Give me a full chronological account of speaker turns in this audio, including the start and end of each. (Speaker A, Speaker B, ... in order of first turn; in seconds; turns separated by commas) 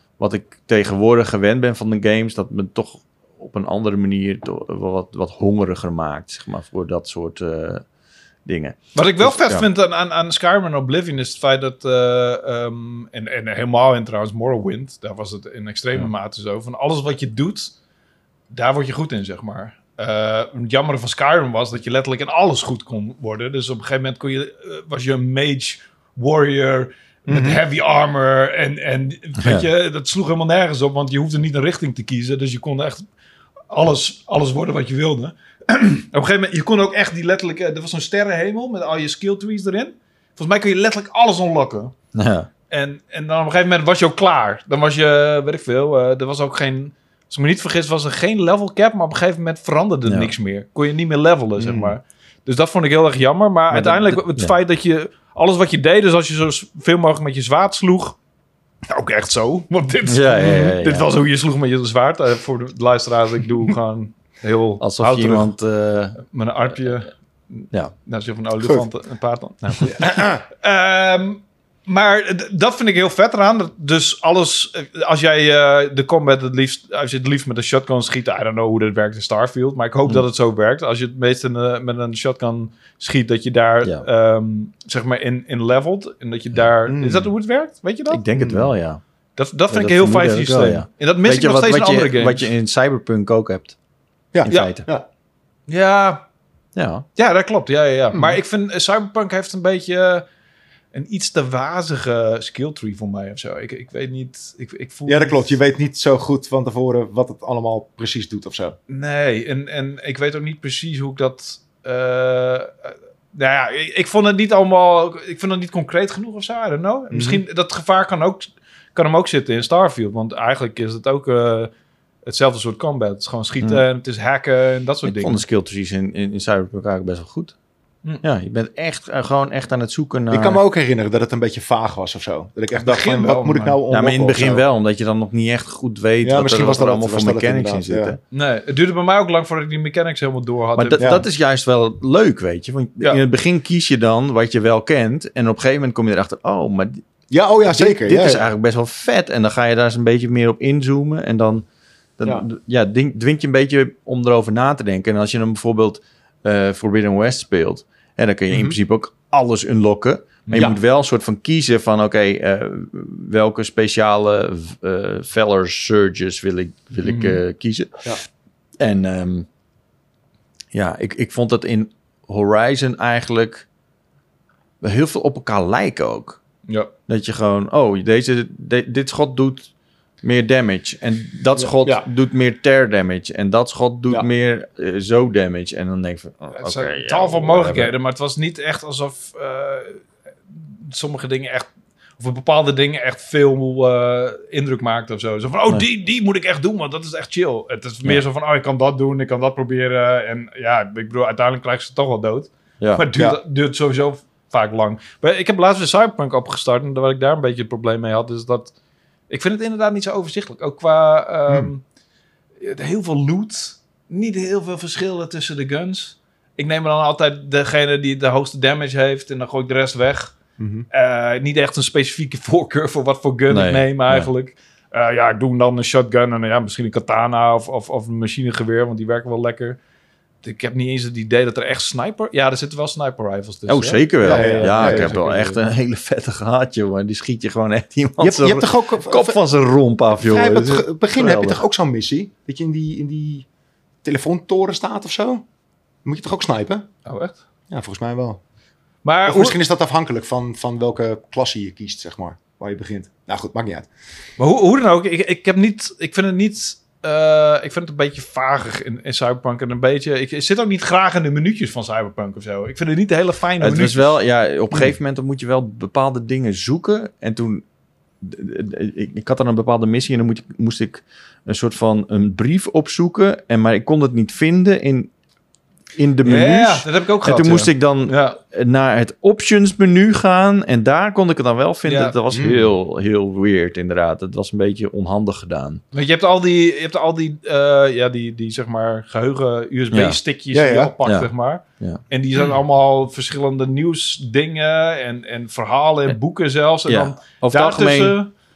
Speaker A: 0.2-7.8, Speaker A: 8.5-9.7, Speaker B: 8.9-17.7, Speaker B: 18.5-33.0, Speaker C: 27.3-27.6, Speaker A: 29.4-29.7, Speaker B: 33.7-41.9, Speaker A: 42.1-42.5, Speaker B: 42.7-58.2, Speaker C: 51.6-52.0, Speaker A: 53.7-54.5, Speaker B: 58.9-65.5, Speaker A: 60.1-61.1, Speaker A: 64.8-66.2, Speaker B: 66.2-88.2, Speaker C: 69.8-70.4, Speaker C: 86.9-87.3, Speaker A: 88.1-89.0, Speaker C: 88.3-88.7, Speaker B: 89.4-92.5, Speaker A: 89.7-93.8, Speaker C: 94.3-95.1, Speaker A: 94.4-94.9, Speaker B: 94.5-94.7, Speaker B: 95.7-96.2, Speaker A: 96.8-97.1, Speaker B: 97.2-100.2, Speaker C: 98.1-98.4, Speaker B: 100.9-105.6, Speaker C: 105.1-108.8, Speaker B: 108.9-121.7, Speaker C: 117.1-117.4, Speaker B: 122.2-125.4, Speaker A: 125.0-127.5, Speaker A: 128.2-130.6, Speaker C: 130.3-134.7, Speaker B: 132.8-133.8, Speaker A: 133.9-138.2, Speaker C: 136.2-138.2, Speaker B: 138.3-141.1, Speaker A: 140.8-147.0, Speaker C: 141.0-141.2, Speaker C: 147.3-148.5, Speaker A: 147.7-151.6, Speaker A: 152.2-168.1, Speaker C: 158.5-158.8, Speaker C: 160.5-160.8, Speaker B: 167.0-167.4, Speaker A: 168.8-169.5, Speaker A: 170.7-173.7, Speaker A: 174.8-176.4, Speaker A: 177.1-179.7, Speaker A: 180.2-187.9, Speaker C: 181.7-182.1, Speaker B: 186.5-190.0, Speaker B: 190.6-191.7, Speaker B: 192.2-208.7, Speaker A: 202.8-203.1, Speaker B: 209.3-211.8, Speaker B: 212.6-220.3, Speaker C: 220.6-220.9, Speaker B: 220.9-229.8, Speaker A: 223.5-224.3, Speaker B: 230.4-235.6, Speaker A: 233.7-241.6, Speaker C: 234.2-235.2, Speaker C: 238.2-239.4, Speaker C: 240.2-243.5, Speaker C: 244.0-245.4, Speaker C: 246.1-246.9, Speaker B: 247.1-247.4, Speaker C: 247.7-248.4, Speaker B: 249.0-249.6, Speaker C: 249.3-253.9, Speaker B: 254.4-264.1, Speaker A: 263.6-267.6, Speaker A: 268.2-275.1, Speaker A: 276.0-285.8, Speaker B: 276.2-278.4, Speaker B: 281.9-282.1, Speaker C: 282.3-282.7, Speaker B: 285.9-298.3, Speaker A: 289.9-290.2, Speaker C: 290.5-290.9, Speaker A: 291.1-292.0, Speaker A: 296.9-298.2